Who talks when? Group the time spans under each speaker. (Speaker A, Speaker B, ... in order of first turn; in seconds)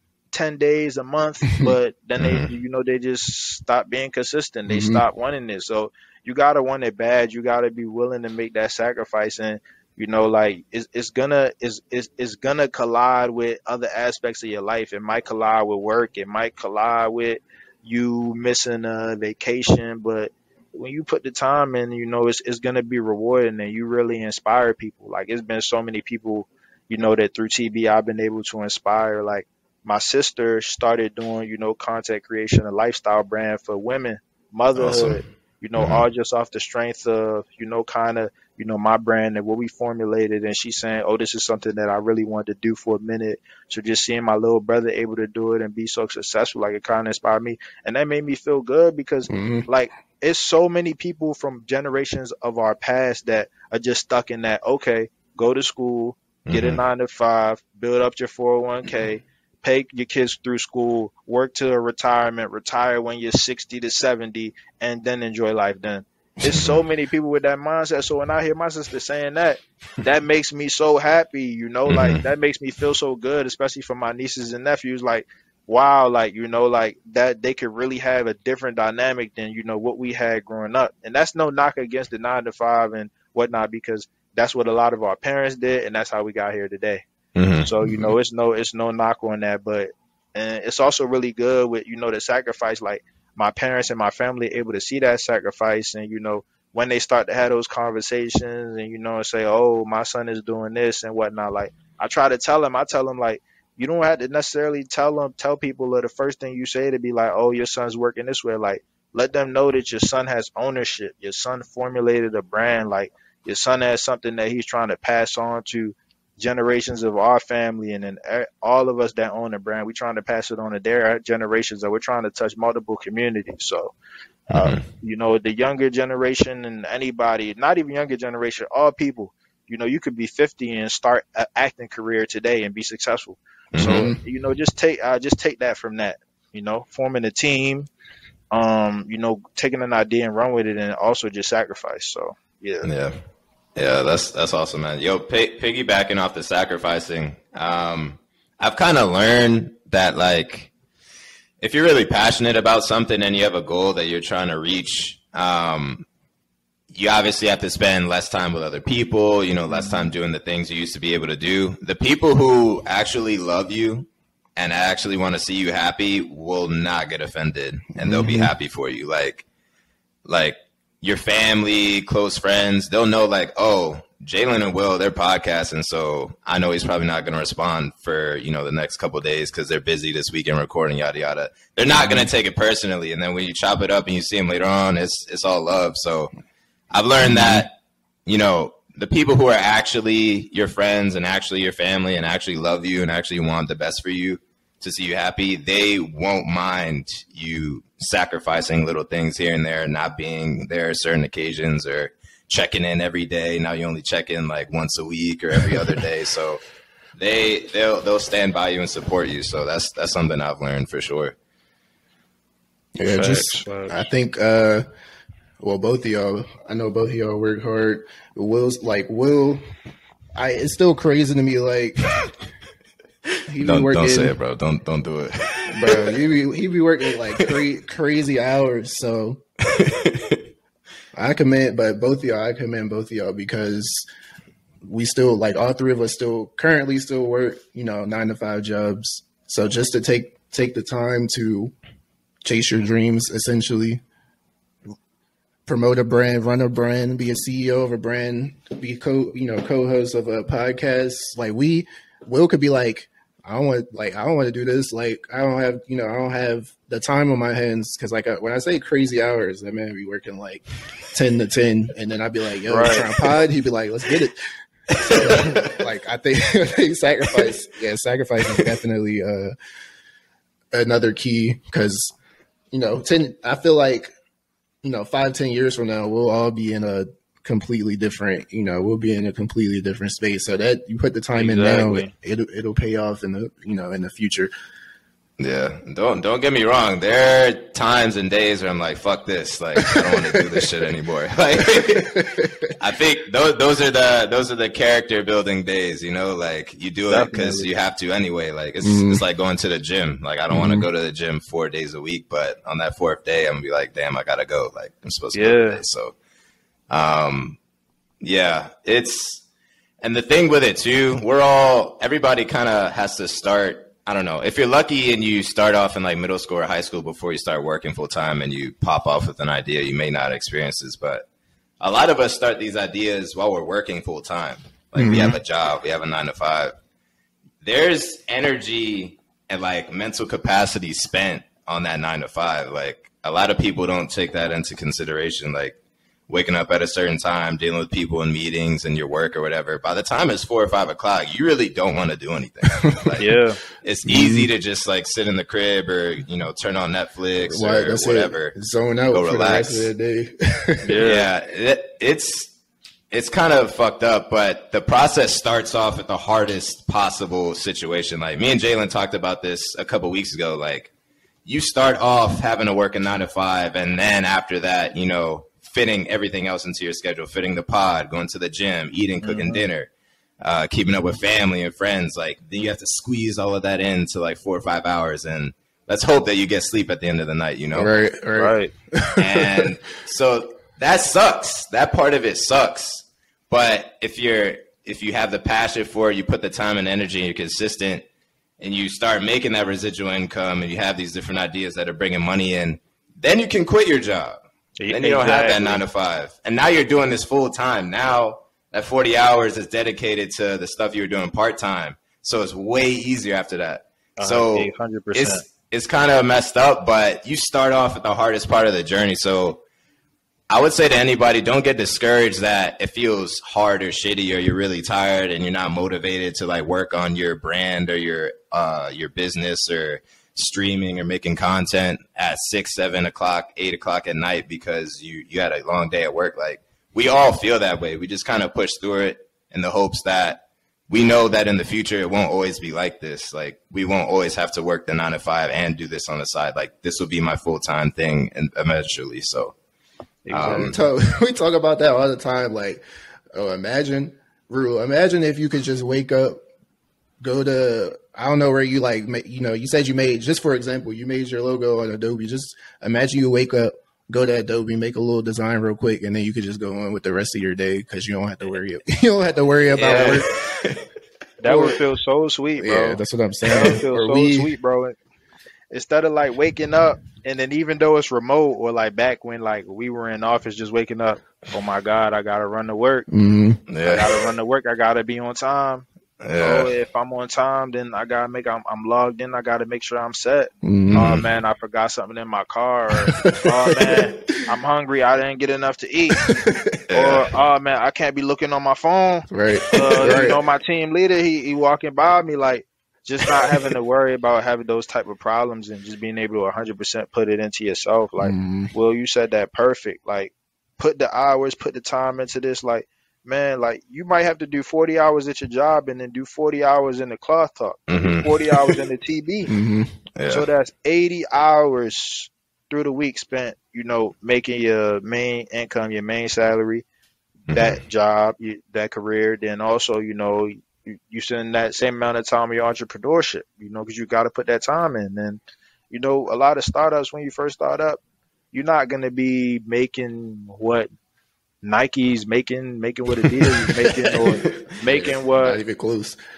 Speaker A: 0.3-87.0, 87.6-123.9, 124.5-137.9, 138.5-142.9, 213.1-214.0, 262.7-263.1, 281.4-282.1, 297.1-297.7, 305.3-305.8, 343.2-343.6, 350.8-351.3, 369.2-369.6, 378.4-378.7, 394.8-395.8, 404.2-405.4, 440.3-440.7, 459.9-460.2, 461.4-465.0, 465.7-473.1, 473.9-475.9, 476.4-486.2, 486.9-509.5, 510.3-516.9, 517.5-528.0, 528.5-530.9, 531.6-535.6
Speaker B: 2.2-2.5, 34.8-35.2, 35.8-36.0, 56.5-56.8, 66.4-66.8, 71.9-72.2, 87.3-87.7, 124.5-124.8, 133.7-134.1, 142.8-143.2, 143.8-150.7, 151.6-156.1, 156.9-169.4, 170.3-186.3, 186.9-187.7, 188.3-206.6, 207.2-211.3, 223.6-226.2, 229.7-230.4, 265.0-265.8, 285.4-306.1, 306.9-307.6, 308.2-309.4, 310.0-321.3, 321.8-326.7, 327.6-335.8, 336.3-348.6, 349.1-349.9, 351.0-352.5, 353.1-360.9, 361.5-369.9, 370.4-377.9, 379.2-388.0, 388.6-409.6, 410.5-439.5, 440.3-440.8, 459.7-460.8, 473.7-474.3, 476.2-476.7, 480.9-481.3, 486.9-487.3, 507.9-508.8, 510.2-510.5, 517.5-517.8, 534.1-534.5
Speaker C: 4.7-5.0, 49.3-49.7, 87.8-88.2, 133.8-134.2, 159.7-160.1, 168.0-168.5, 182.0-182.3, 187.2-187.7, 213.0-214.8, 215.6-219.6, 220.4-222.2, 223.5-224.4, 225.7-229.4, 231.2-234.0, 234.8-241.7, 242.4-244.0, 245.7-264.4, 265.0-269.5, 270.7-272.1, 272.7-274.1, 274.8-284.5, 290.0-290.6, 291.6-292.7, 298.8-299.2, 300.5-300.9, 325.0-325.4, 342.9-343.2, 344.1-344.5, 347.5-350.9, 377.7-379.7, 440.5-442.8, 443.3-446.4, 447.2-460.3, 461.4-461.8, 462.6-464.5, 473.1-473.6, 480.6-481.1, 483.1-484.1, 486.2-486.7, 489.3-490.4, 498.2-498.7, 509.5-509.9, 534.9-536.2